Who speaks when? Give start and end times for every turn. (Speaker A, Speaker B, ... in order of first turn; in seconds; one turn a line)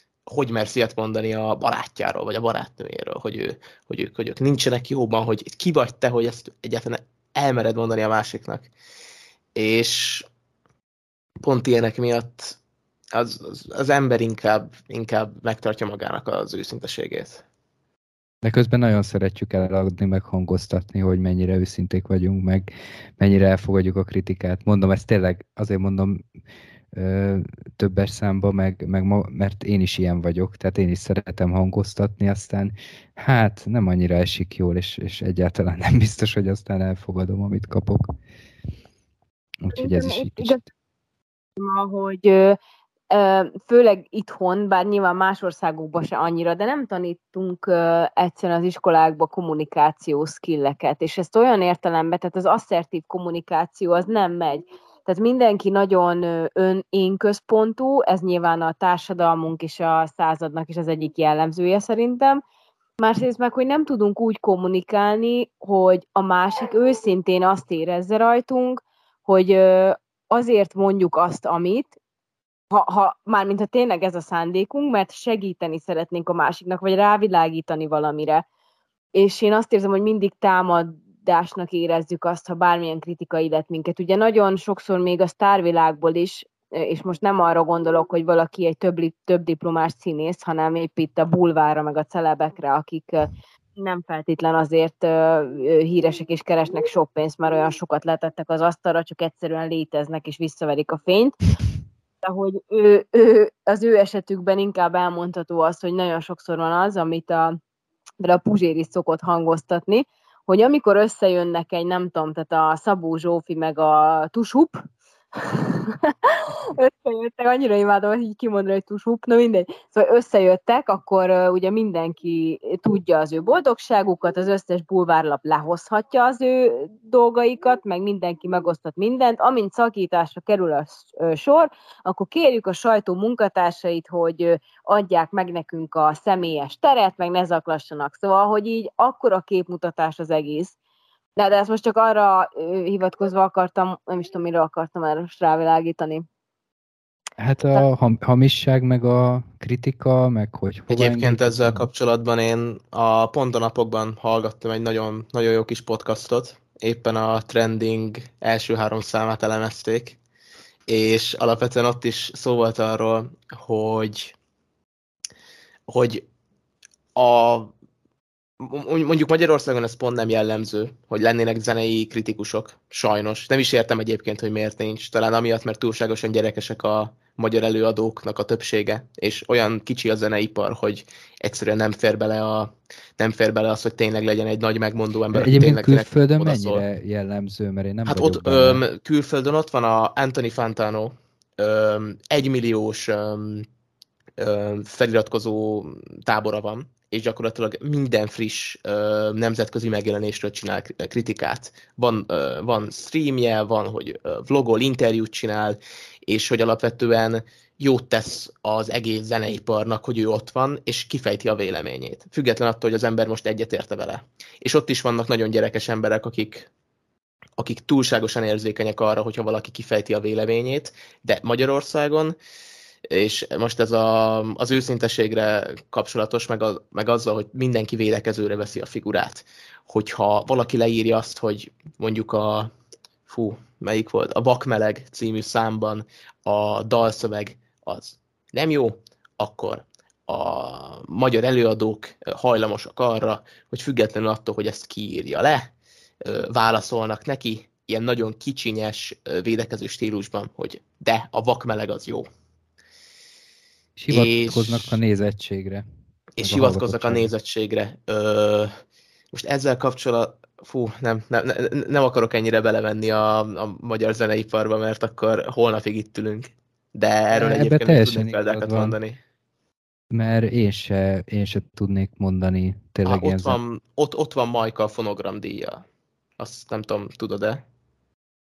Speaker A: 0.3-8.7
Speaker A: 9.5-10.2
Speaker A: 11.4-12.6
Speaker A: 13.1-17.4
Speaker B: 18.4-26.2
Speaker B: 26.9-38.0
Speaker B: 39.6-40.7
Speaker C: 39.7-40.6
Speaker C: 41.6-42.6
Speaker C: 43.1-62.4
Speaker C: 63.0-71.9
Speaker C: 72.7-78.4
Speaker C: 79.1-101.5
Speaker C: 102.2-107.6
Speaker C: 108.2-114.8
Speaker C: 115.3-140.7
Speaker C: 141.3-146.2
Speaker B: 147.4-151.9
Speaker A: 150.9-160.2
Speaker A: 160.9-164.3
Speaker A: 165.9-166.2
Speaker A: 167.1-167.7
Speaker A: 168.6-186.8
Speaker B: 185.3-188.8
Speaker A: 188.1-193.7
Speaker A: 194.4-216.7
Speaker A: 217.6-222.3
Speaker A: 223.1-232.7
Speaker A: 233.2-245.7
Speaker A: 246.2-252.3
Speaker B: 254.0-255.8
Speaker A: 254.1-255.0
Speaker A: 256.4-258.7
Speaker B: 256.4-257.3
Speaker A: 259.3-269.2
Speaker B: 267.3-269.0
Speaker B: 270.1-273.6
Speaker A: 273.0-275.8
Speaker A: 276.4-277.6